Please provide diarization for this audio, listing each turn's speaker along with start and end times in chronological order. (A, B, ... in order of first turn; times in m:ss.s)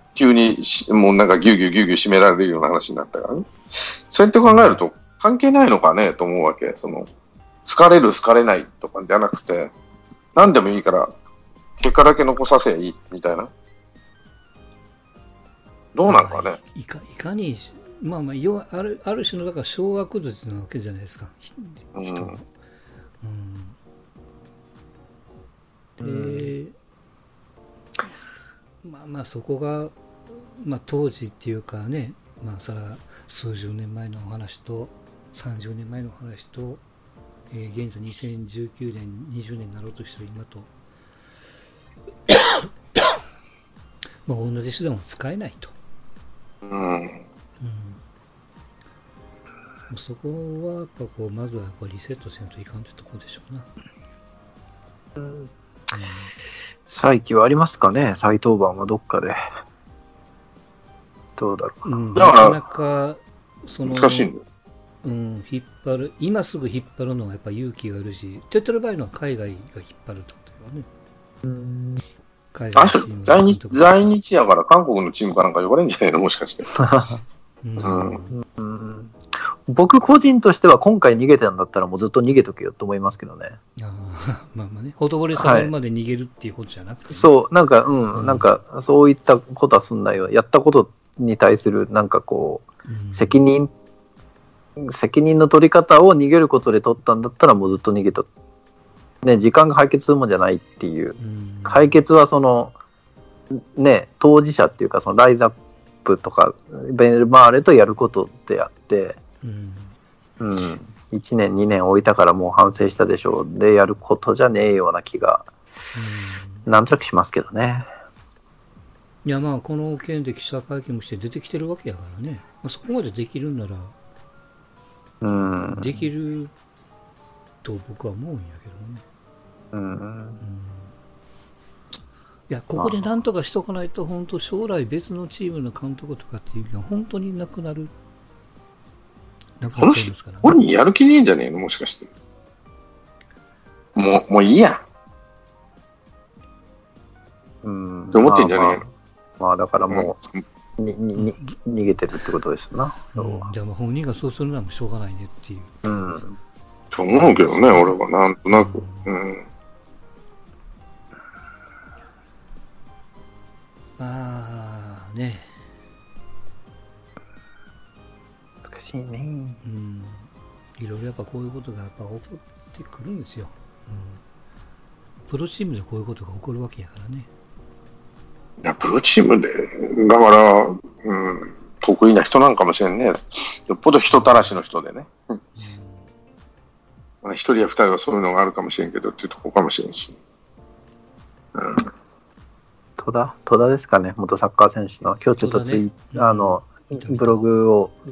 0:00.2-0:07.1 A
0:04.4-0:04.8 B
0:07.6-0:09.7 A
0:10.4-0:11.1 A
0:11.8-0:13.5 A
0:16.0-0:16.6 A
0:16.1-0:22.5 B
0:22.0-0:22.3 A
0:23.2-0:23.8 B
0:26.0-0:26.7 B
0:26.0-0:26.5 C
0:28.8-0:36.8 B
0:37.5-0:40.7 B
0:42.3-0:42.7 B
0:44.2-0:45.8 B
0:46.6-0:47.2 A
0:47.6-0:48.0 B
0:49.9-0:53.7 B
0:55.2-0:55.5 C
0:55.9-0:56.3 B
0:56.9-0:59.4 C
1:01.4-1:01.8 C
1:01.8-1:04.3 B
1:02.2-1:02.6 A
1:03.9-1:04.4 A
1:05.0-1:10.9 B
1:11.4-1:12.0 C
1:12.5-1:14.1 B
1:12.8-1:16.7 A
1:16.8-1:17.2 C
1:17.6-1:18.4 B
1:17.8-1:18.2 A
1:18.3-1:23.6 C
1:23.8-1:27.3 B
1:25.3-1:25.7 C
1:27.1-1:33.7 C
1:28.1-1:28.5 B
1:32.9-1:33.4 B
1:34.8-1:38.3 C
1:39.2-1:42.7 C
1:41.2-1:42.0 B
1:43.5-1:49.2 C
1:49.4-1:49.9 B
1:50.4-1:55.5 C
1:55.9-1:56.7 B
1:56.7-1:57.9 C
1:59.2-2:04.0 B
2:05.2-2:06.1 C
2:05.7-2:06.5 B
2:07.6-2:09.0 B
2:09.7-2:10.4 C
2:10.4-2:10.9 B
2:12.5-2:17.9 B
2:12.8-2:13.0 C
2:19.6-2:20.5 B
2:19.8-2:22.1 A
2:24.0-2:24.8 A
2:27.6-2:30.2 C
2:28.1-2:28.8 A
2:29.9-2:30.4 A
2:30.8-2:33.5 C
2:31.2-2:31.6 B
2:33.1-2:36.2 B
2:35.8-2:36.4 C
2:36.9-2:39.4 A
2:37.1-2:38.0 B
2:38.5-2:39.1 B
2:44.0-2:45.6 B
2:48.6-2:49.6 C
2:49.6-2:54.2 B
2:55.3-2:57.3 B
2:58.6-3:05.1 A
3:04.1-3:04.5 B
3:05.6-3:06.1 B
3:07.2-3:10.2 A
3:11.6-3:11.9 A
3:13.0-3:18.0 C
3:15.4-3:17.4 B